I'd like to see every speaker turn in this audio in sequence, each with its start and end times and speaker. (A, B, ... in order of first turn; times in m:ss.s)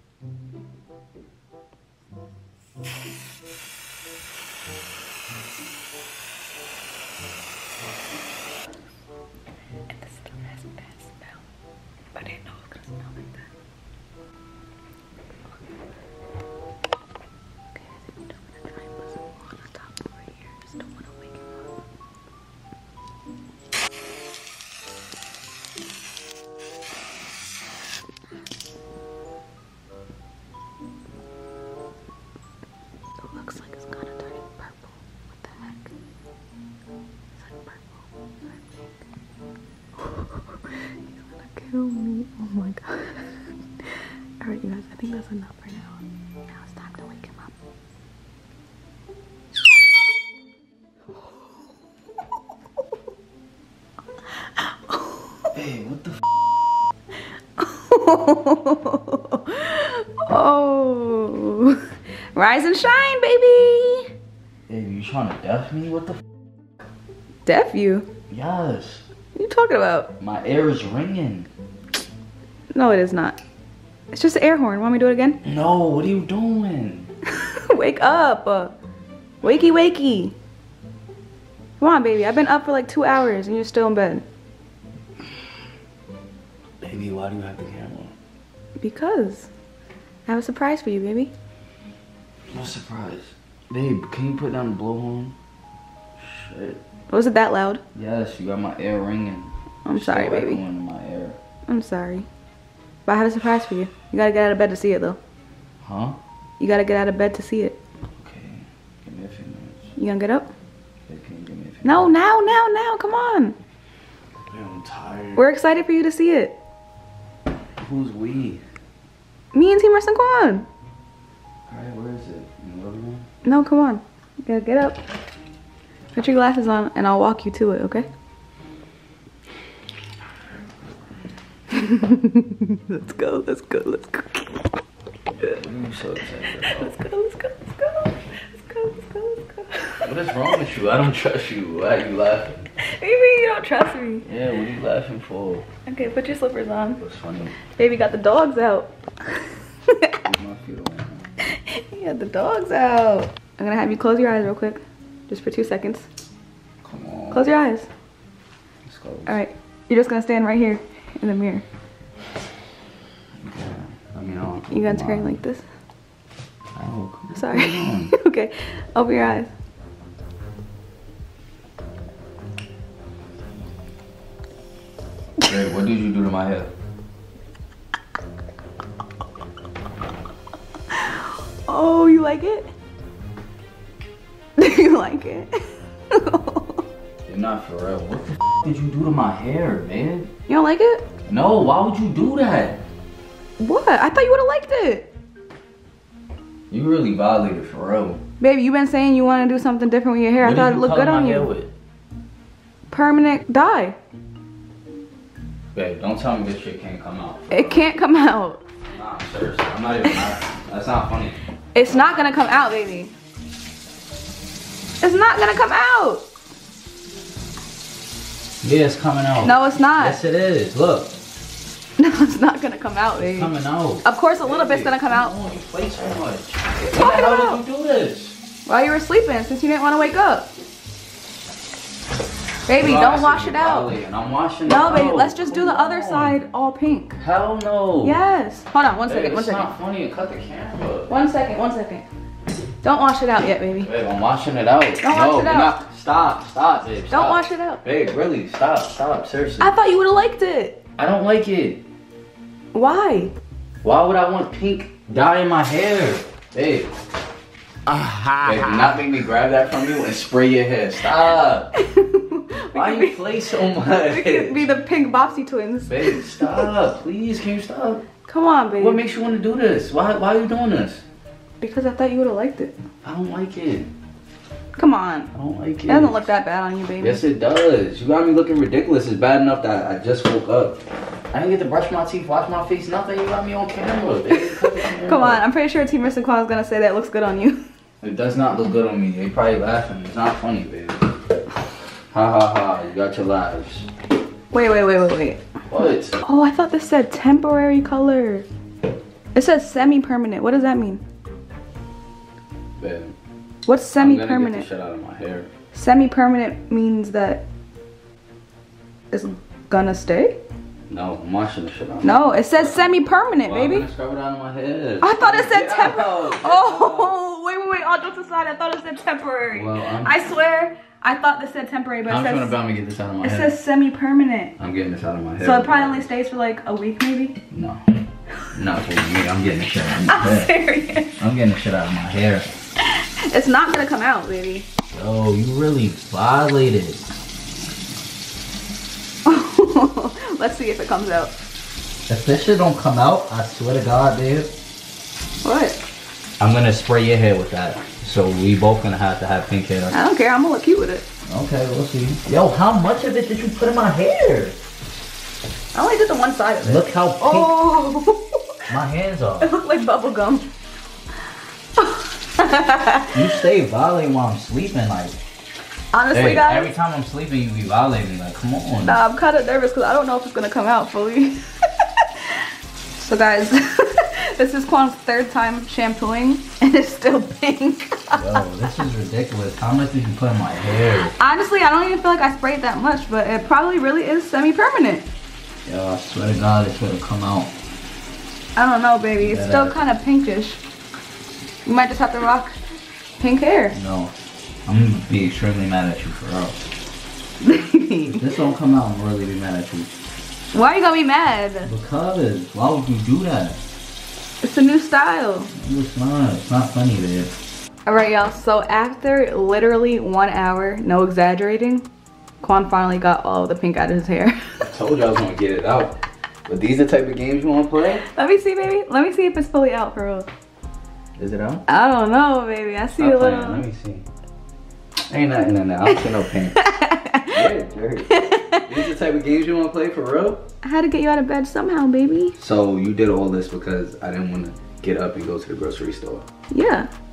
0:09.9-0:11.3 A
0:12.1-0:13.4 A
0:17.7-0:21.5 A
0:33.2-0:35.9 A
0:37.4-0:37.9 A
0:40.0-0:47.5 A
0:54.6-0:55.2 A
0:55.5-0:56.2 B
0:57.6-1:01.8 A
1:02.3-1:04.1 A
1:04.7-1:06.2 B
1:07.4-1:08.1 A
1:08.3-1:09.0 B
1:09.3-1:10.1 A
1:10.2-1:11.5 B
1:12.7-1:13.4 A
1:14.1-1:15.4 A
1:15.4-1:17.1 B
1:17.3-1:18.8 A
1:19.4-1:20.3 A
1:21.8-1:24.2 A
1:26.8-1:28.1 B
1:28.8-1:29.5 A
1:30.2-1:31.3 A
1:32.5-1:35.3 B
1:36.2-1:36.8 B
1:37.1-1:37.8 A
1:37.9-1:41.4 B
1:39.8-1:40.6 A
1:41.7-1:42.2 A
1:43.0-1:45.2 A
1:45.8-1:46.2 B
1:46.6-1:47.8 A
1:48.2-1:49.9 B
1:50.0-1:50.5 A
1:51.1-1:52.1 B
1:51.8-1:53.6 A
1:54.4-1:55.5 B
1:55.4-1:56.6 A
1:57.8-1:58.6 B
1:59.5-2:00.6 A
2:01.7-2:03.2 B
2:03.4-2:05.0 A
2:06.1-2:08.1 A
2:11.7-2:14.6 A
2:15.4-2:16.9 B
2:16.5-2:20.5 A
2:20.0-2:22.6 B
2:22.8-2:24.3 A
2:24.2-2:25.6 B
2:25.8-2:27.0 A
2:27.0-2:27.6 B
2:27.7-2:30.2 A
2:30.2-2:31.3 B
2:31.5-2:36.0 A
2:36.8-2:37.5 B
2:37.3-2:37.9 A
2:38.8-2:39.4 B
2:39.2-2:41.6 A
2:43.4-2:45.4 B
2:44.7-2:45.6 A
2:46.7-2:48.1 B
2:47.3-2:49.5 A
2:55.4-2:56.7 B
3:00.9-3:02.7 A
3:04.6-3:05.5 A
3:06.1-3:06.8 A
3:07.2-3:10.3 B
3:10.5-3:11.0 A
3:11.2-3:12.8 B
3:13.6-3:15.1 A
3:16.7-3:18.2 B
3:18.4-3:21.5 A
3:20.4-3:21.7 B
3:22.9-3:24.0 A
3:25.7-3:27.7 B
3:27.5-3:28.6 A
3:28.9-3:31.4 B
3:31.7-3:33.1 A
3:35.0-3:36.2 A
3:38.6-3:41.1 B
3:39.4-3:40.2 A
3:42.0-3:45.4 A
3:43.2-3:48.4 B
3:46.8-3:47.6 A
3:48.6-3:50.5 A
3:52.6-3:53.9 A
3:52.7-3:56.4 B
3:54.6-3:57.2 A
3:57.2-3:58.2 B
3:58.0-3:59.7 A
3:59.1-4:01.1 B
4:01.1-4:02.0 A
4:02.8-4:03.9 A
4:03.8-4:09.8 B
4:05.0-4:05.8 A
4:07.1-4:07.8 A
4:09.6-4:10.8 A
4:11.0-4:11.8 B
4:12.7-4:13.3 A
4:13.8-4:16.9 B
4:18.4-4:21.7 B
4:21.7-4:26.7 A
4:22.7-4:24.7 B
4:25.8-4:28.0 B
4:28.3-4:29.0 A
4:28.8-4:31.0 B
4:31.6-4:32.7 A
4:33.0-4:33.9 B
4:34.8-4:35.3 A
4:35.3-4:36.3 B
4:35.8-4:37.2 A
4:37.0-4:40.8 B
4:41.3-4:45.4 B
4:45.0-4:47.6 A
4:48.0-4:51.0 B
4:52.1-4:53.9 B
4:54.5-4:55.4 A
4:55.7-4:56.2 B
4:56.2-4:58.4 A
4:59.3-5:01.0 A
5:02.8-5:03.1 B
5:03.6-5:04.7 A
5:04.0-5:05.5 B
5:05.7-5:07.4 A
5:09.1-5:10.4 A
5:10.9-5:12.9 B
5:12.0-5:13.9 A
5:13.4-5:17.2 B
5:15.0-5:22.5 A
5:19.5-5:20.1 B
5:22.1-5:23.5 B
5:23.2-5:24.5 A
5:24.6-5:26.1 B
5:25.4-5:27.4 A
5:27.5-5:27.8 B
5:28.5-5:32.5 B
5:30.0-5:31.2 A
5:32.8-5:34.7 A
5:34.9-5:37.0 B
5:39.2-5:41.3 A
5:42.1-5:44.5 B
5:45.4-5:45.8 A
5:46.4-5:50.0 B
5:49.9-5:51.0 A
5:51.2-5:54.6 B
5:55.7-5:58.4 A
5:56.6-5:57.8 B
5:58.7-5:59.5 B
5:59.4-6:00.5 A
6:01.8-6:03.2 A
6:03.1-6:05.2 B
6:05.9-6:06.7 A
6:06.1-6:09.0 B
6:08.8-6:12.4 A
6:12.9-6:18.5 A
6:18.1-6:21.1 B
6:21.0-6:25.0 A
6:25.6-6:27.5 B
6:28.6-6:30.6 A
6:29.2-6:29.8 B
6:31.6-6:32.5 A
6:33.2-6:33.8 A
6:33.7-6:34.1 B
6:34.6-6:36.6 B
6:37.4-6:38.2 A
6:38.1-6:39.9 B
6:40.5-6:41.7 A
6:41.6-6:43.6 B
6:44.4-6:45.5 A
6:45.5-6:47.3 B
6:47.8-6:51.9 A
6:52.4-6:54.6 A
6:54.6-6:56.0 B
6:56.5-6:58.0 B
6:58.1-7:00.3 A
7:01.2-7:01.6 B
7:01.7-7:03.6 A
7:02.9-7:04.0 B
7:05.1-7:06.6 B
7:06.5-7:07.4 A
7:07.3-7:10.4 B
7:08.1-7:08.7 A
7:10.6-7:12.4 A
7:12.4-7:16.2 B
7:16.5-7:16.9 A